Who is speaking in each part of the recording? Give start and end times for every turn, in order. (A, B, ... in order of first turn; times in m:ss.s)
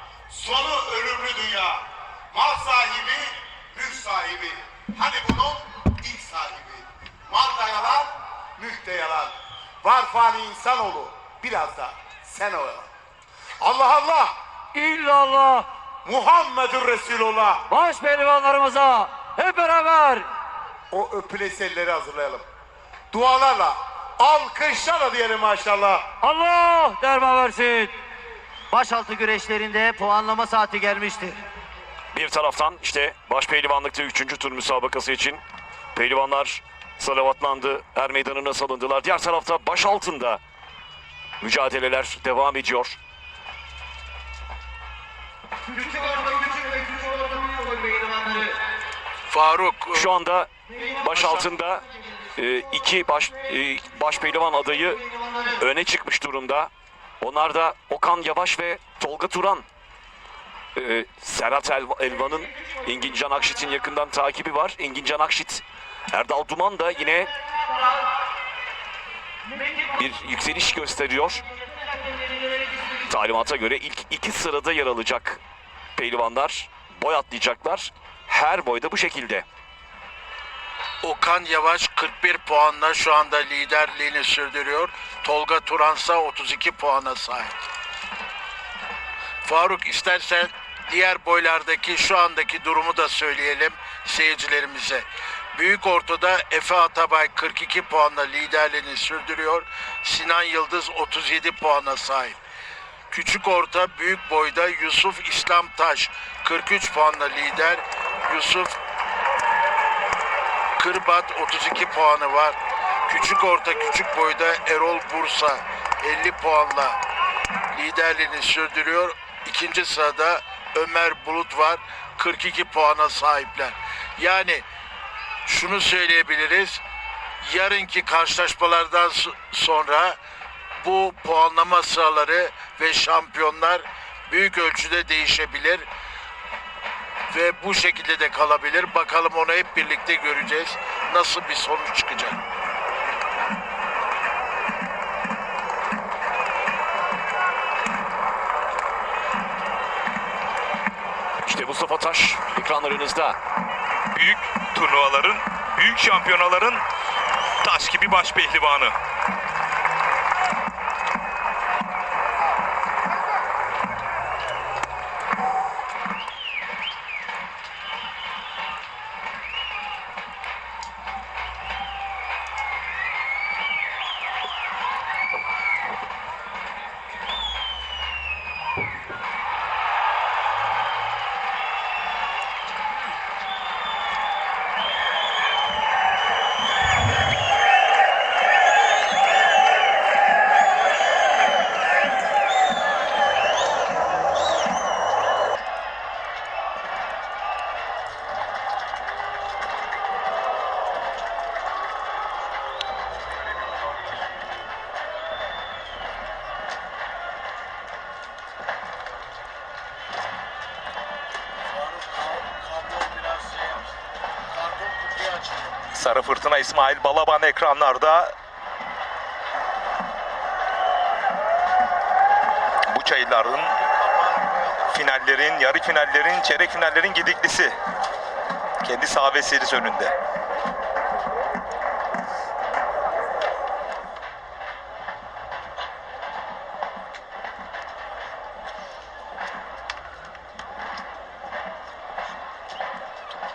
0:00.3-0:12.9 A
0:13.6-0:14.4 A
0:14.7-0:15.6 B
0:16.0-0:17.6 A
0:17.7-0:20.3 B
0:20.9-0:22.4 A
0:23.1-0:26.1 A
0:26.2-0:27.9 B
0:28.7-0:31.4 B
0:32.1-0:35.4 C
0:35.9-0:40.4 C
0:41.4-0:43.0 C
0:46.0-0:48.5 B
0:49.3-0:50.1 D
0:49.9-0:51.8 C
0:52.4-0:56.7 C
0:57.2-0:59.6 C
1:00.7-1:07.3 C
1:09.9-1:11.4 C
1:13.0-1:15.4 C
1:16.0-1:19.4 C
1:21.0-1:27.5 D
1:29.4-1:42.4 D
1:43.1-1:48.8 D
1:50.8-1:57.0 D
1:57.7-2:04.6 D
2:05.4-2:06.8 D
2:07.4-2:10.2 D
2:10.8-2:15.9 D
2:17.3-2:22.4 D
2:31.4-2:33.4 C
2:34.1-2:36.8 E
2:37.6-2:38.9 E
3:31.8-3:33.9 D
3:34.5-3:35.8 D
3:35.9-3:38.3 E
3:42.9-3:43.7 E
3:44.9-3:47.7 E
3:48.8-3:50.1 E